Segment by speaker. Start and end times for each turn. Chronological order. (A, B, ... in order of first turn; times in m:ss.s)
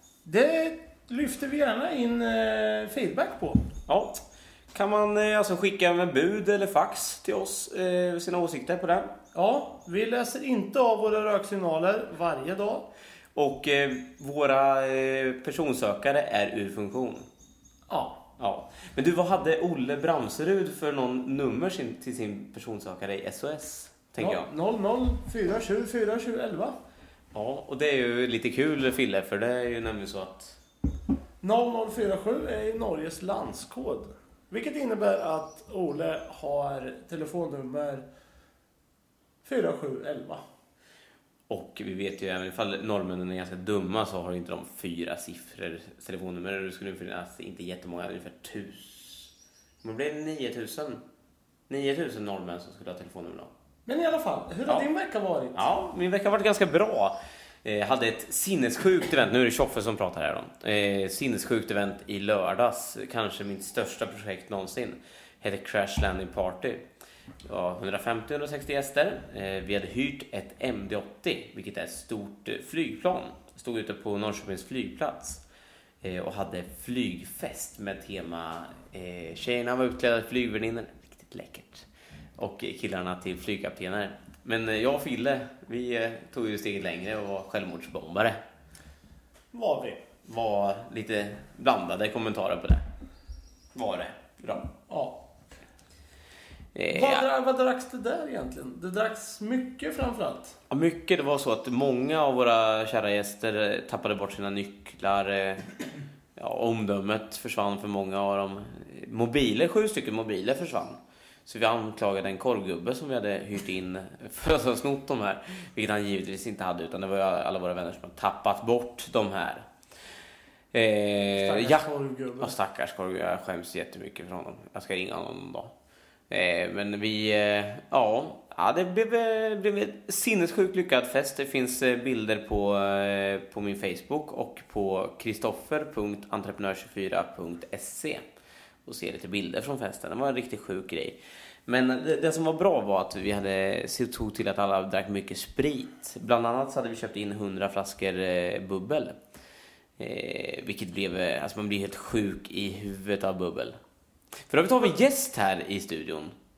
0:00.2-0:03.6 A
0:03.9-0:04.2 B
0:04.7-0:09.1 B
0:09.3-0:12.9 A
0:13.4-0:17.3 B
0:17.9-0:18.2 A
0:18.4-0:24.5 B
0:24.2-0:26.8 A
0:27.3-0:30.6 B
0:31.4-0:38.0 A
0:39.4-0:40.4 A
0:41.5-0:49.3 B
0:49.8-0:51.0 B
0:51.7-0:53.5 B
0:53.9-0:55.6 A
0:55.5-1:06.9 B
1:07.5-1:15.4 B
1:16.0-1:21.9 B
1:22.4-1:28.4 B
1:29.5-1:30.0 A
1:30.3-1:32.8 B
1:33.8-1:34.7 B
1:34.9-1:35.2 A
1:36.8-1:37.3 B
1:36.9-1:40.6 A
1:40.7-1:45.7 B
1:46.4-1:59.6 B
2:00.7-2:01.9 B
2:01.4-2:02.6 A
2:02.4-2:05.7 B
2:06.3-2:18.2 B
2:18.8-2:29.2 B
2:30.0-2:33.8 B
2:34.5-2:36.4 B